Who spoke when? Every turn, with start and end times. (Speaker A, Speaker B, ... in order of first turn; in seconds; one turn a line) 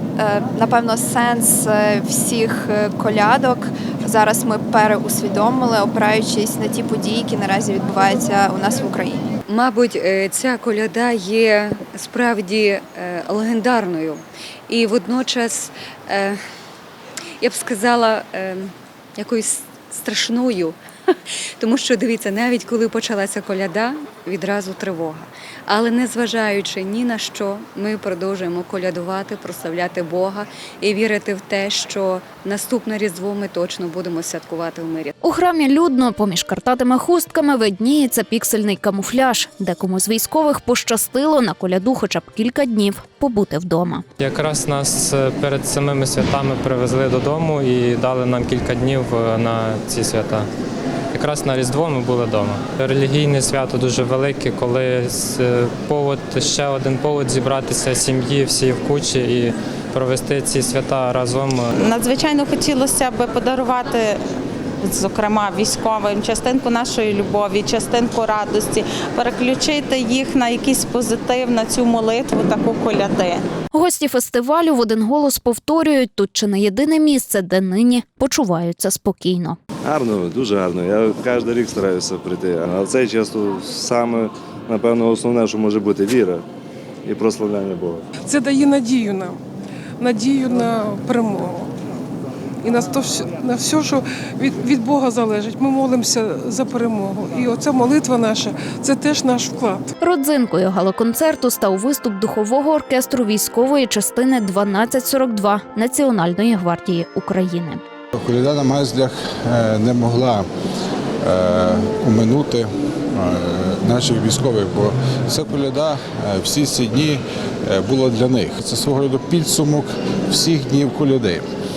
Speaker A: 0.1-9.3
Speaker B: 9.4-16.4
Speaker B: 17.4-20.8
Speaker B: 21.6-35.1
Speaker C: 35.2-44.0
Speaker D: 44.2-50.5
Speaker D: 51.1-61.7
Speaker E: 61.8-64.2
Speaker E: 64.8-73.4
Speaker C: 73.7-79.6
Speaker F: 79.8-86.4
Speaker F: 87.0-88.0
Speaker G: 88.2-89.4
Speaker G: 90.0-91.7
Speaker G: 92.6-99.9
Speaker C: 100.0-107.8
Speaker H: 108.2-110.4
Speaker H: 111.2-121.4